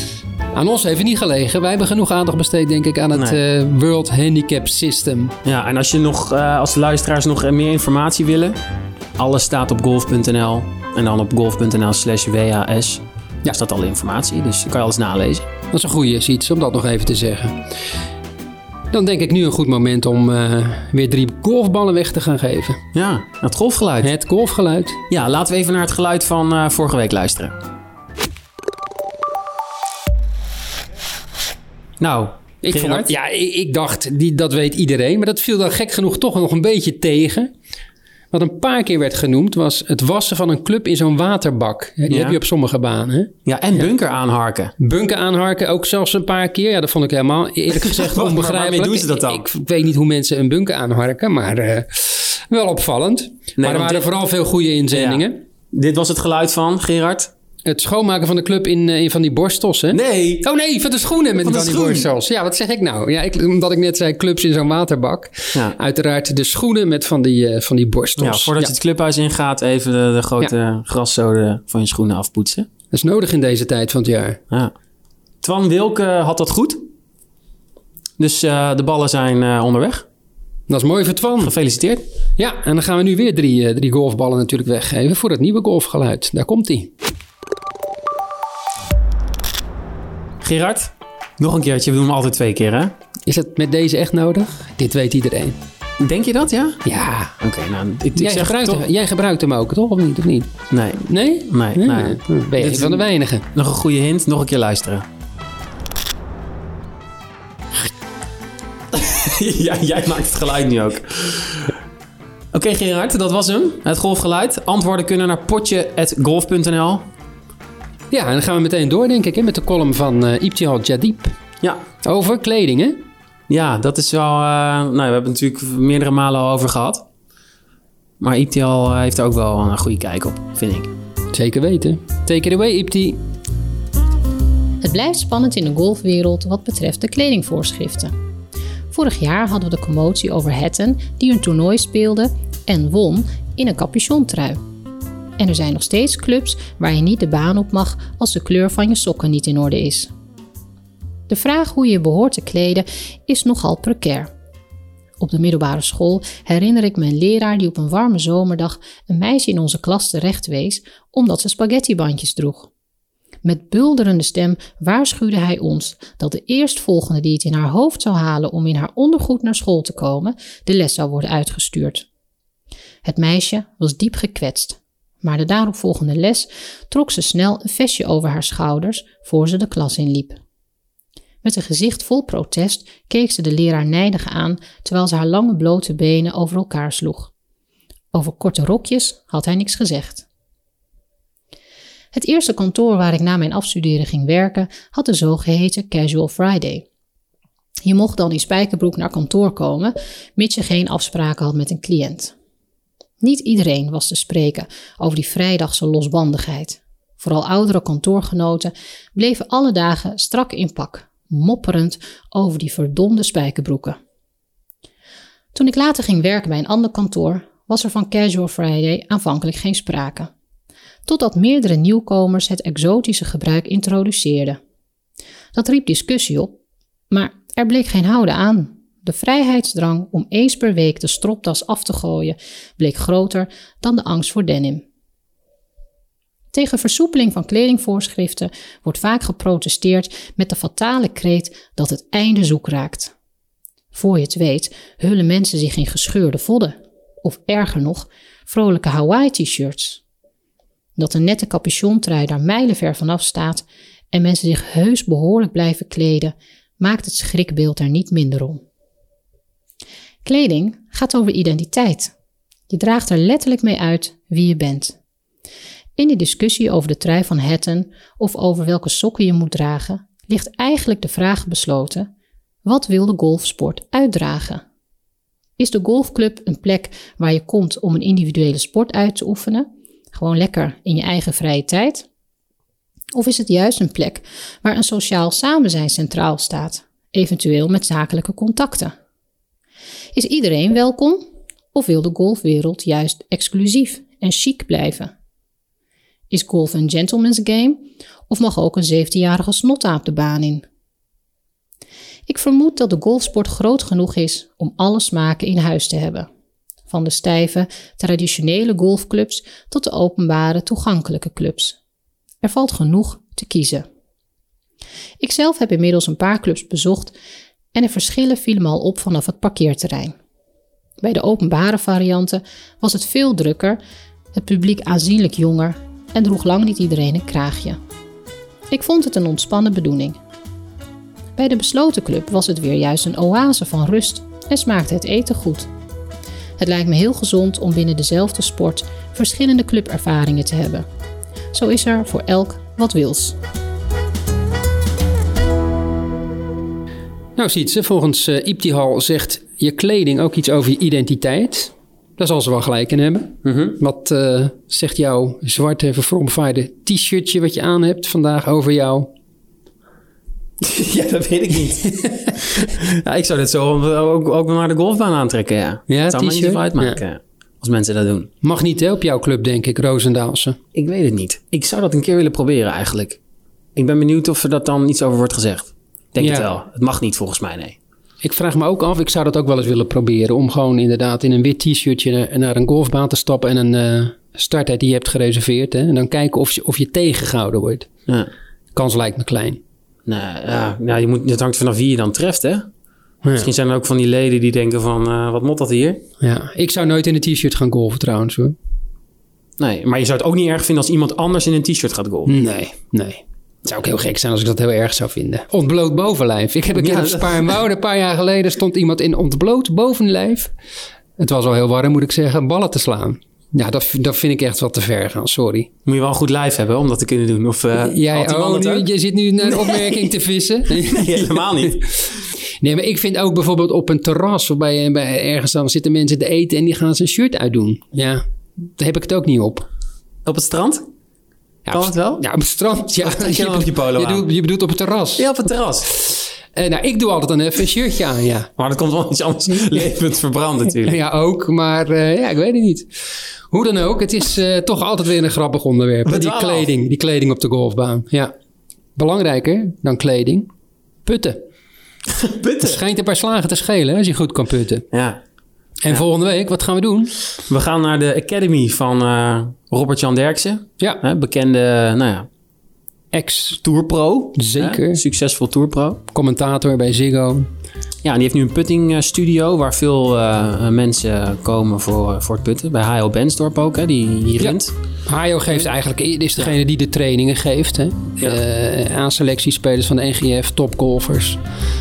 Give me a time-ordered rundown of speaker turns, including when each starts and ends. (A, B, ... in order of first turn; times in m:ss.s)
0:00.5-0:05.3 A
0:03.1-0:03.4 B
0:05.4-0:08.6 B
0:09.2-0:15.4 B
0:15.7-0:17.7 A
0:18.9-0:22.8 A
0:22.9-0:24.1 B
0:24.0-0:25.0 A
0:25.1-0:27.5 B
0:32.0-0:33.1 B
0:32.6-0:37.5 A
0:38.3-0:43.9 A
0:42.1-0:42.4 B
0:43.4-0:44.7 B
0:44.8-0:55.4 A
0:47.7-0:49.4 B
0:53.6-0:54.1 B
0:54.9-0:57.3 B
0:57.6-1:08.7 A
0:59.9-1:00.4 B
1:01.4-1:02.1 B
1:08.2-1:12.7 B
1:12.9-1:14.4 A
1:15.4-1:16.8 B
1:18.2-1:20.0 B
1:20.7-1:21.5 A
1:21.4-1:22.0 B
1:22.4-1:26.9 A
1:30.4-1:32.9 B
1:33.2-1:35.6 A
1:36.0-1:36.8 B
1:36.8-1:37.3 A
1:37.4-1:38.8 B
1:38.2-1:43.4 A
1:40.7-1:45.0 B
1:48.9-1:51.7 B
1:52.5-1:57.0 B
1:58.1-2:01.4 A
2:02.0-2:03.0 A
2:03.5-2:07.0 B
2:08.2-2:10.9 B
2:11.3-2:13.2 A
2:14.8-2:18.1 C
2:18.9-2:24.6 C
2:25.4-2:30.1 C
2:31.3-2:34.3 C
2:35.2-2:42.7 C
2:43.4-2:52.0 C
2:53.0-3:00.4 C
3:01.4-3:07.3 C
3:08.1-3:10.2 C
3:12.1-3:16.8 C
3:17.8-3:22.3 C
3:23.2-3:34.0 C
3:35.5-3:40.3 C
3:41.0-3:44.6 C
3:45.5-3:46.6 C
3:47.1-3:54.8 C
3:56.5-4:03.1 C
4:03.9-4:10.0 C
4:11.0-4:18.6 C
4:20.2-4:22.1 C
4:22.7-4:25.0 C
4:26.0-4:32.1 C
4:32.6-4:34.6 C
4:35.6-4:42.0 C
4:43.1-4:48.9 C
4:50.1-4:55.1 C
4:56.3-5:00.6 C
5:02.3-5:06.3 C
5:06.9-5:11.8 C
5:12.4-5:13.8 C
5:15.2-5:17.1 C
5:17.7-5:20.1 C
5:21.0-5:23.8 C
5:24.3-5:27.8 C
5:28.7-5:30.2 C
5:31.4-5:35.7 C
5:36.6-5:40.8 C
5:41.5-5:43.4 C
5:47.4-5:59.1 A
5:53.4-5:53.8 B
6:00.6-6:08.3 B
6:05.9-6:07.0 A
6:08.4-6:10.6 A
6:10.7-6:13.2 B
6:13.8-6:17.8 B
6:16.2-6:16.5 A
6:18.2-6:27.9 A
6:28.7-6:29.6 A
6:30.0-6:32.7 B
6:33.2-6:33.5 A
6:33.4-6:36.0 B
6:36.2-6:38.6 A
6:39.6-6:42.3 B
6:42.2-6:50.5 A
6:46.7-6:47.5 B
6:51.2-6:55.7 A
6:55.8-6:58.9 B
6:57.8-7:09.6 A
6:59.4-7:00.1 B
7:00.7-7:02.0 B
7:10.2-7:10.8 B
7:11.6-7:15.3 A
7:11.7-7:12.2 B
7:13.0-7:14.2 B
7:15.2-7:15.9 B
7:15.9-7:18.5 A
7:18.6-7:21.0 B
7:20.8-7:22.9 A
7:23.5-7:28.3 A
7:26.0-7:26.7 B
7:29.0-7:30.5 A
7:31.0-7:31.4 A
7:32.1-7:32.8 B
7:32.6-7:34.8 A
7:34.9-7:35.2 B
7:35.8-7:37.1 A
7:37.5-7:42.3 B
7:43.1-7:43.6 A
7:43.6-7:46.0 B
7:44.3-7:45.0 A
7:46.1-7:47.5 A
7:48.0-7:54.7 B
7:54.4-8:01.4 A